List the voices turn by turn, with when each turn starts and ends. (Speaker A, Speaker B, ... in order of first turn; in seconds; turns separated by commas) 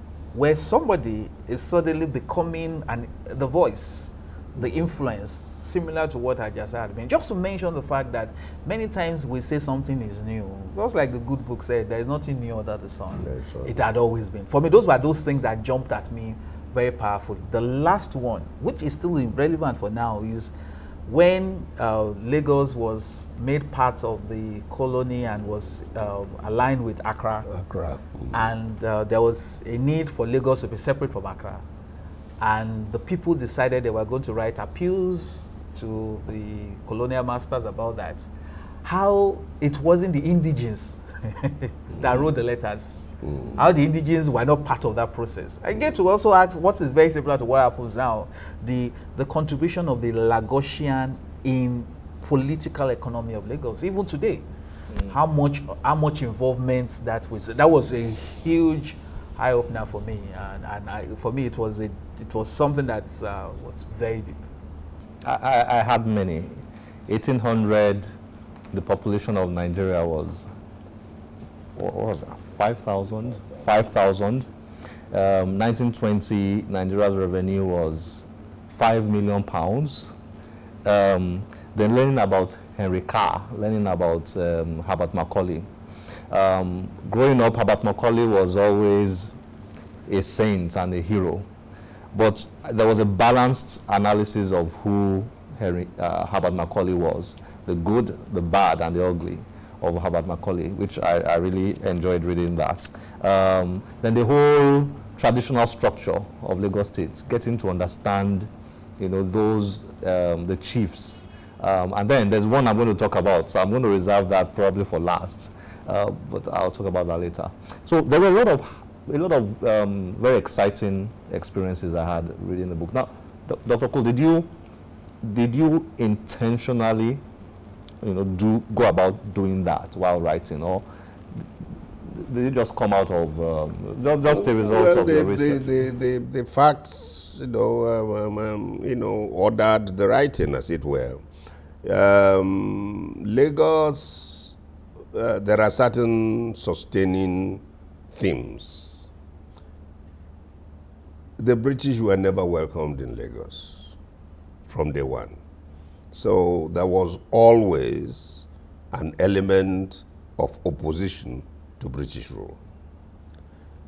Speaker A: 0.3-20.5, Speaker B: 13.1-13.8, Speaker A: 21.1-27.5, Speaker B: 27.4-28.5, Speaker A: 28.3-31.6, Speaker A: 32.4-38.2, Speaker A: 38.8-43.0, Speaker B: 43.2-43.5, Speaker A: 43.5-54.5, Speaker A: 55.0-64.5, Speaker C: 65.2-68.1, Speaker C: 68.7-70.5, Speaker C: 71.8-74.5, Speaker C: 75.1-80.1, Speaker C: 80.8-85.7, Speaker C: 86.3-89.3, Speaker C: 90.1-91.5, Speaker C: 92.1-124.5, Speaker C: 125.2-127.2, Speaker C: 128.0-130.8, Speaker C: 132.1-135.7, Speaker B: 134.3-141.2, Speaker B: 141.8-144.6, Speaker B: 145.1-149.1, Speaker B: 151.4-153.9, Speaker B: 154.7-155.4, Speaker B: 156.1-162.6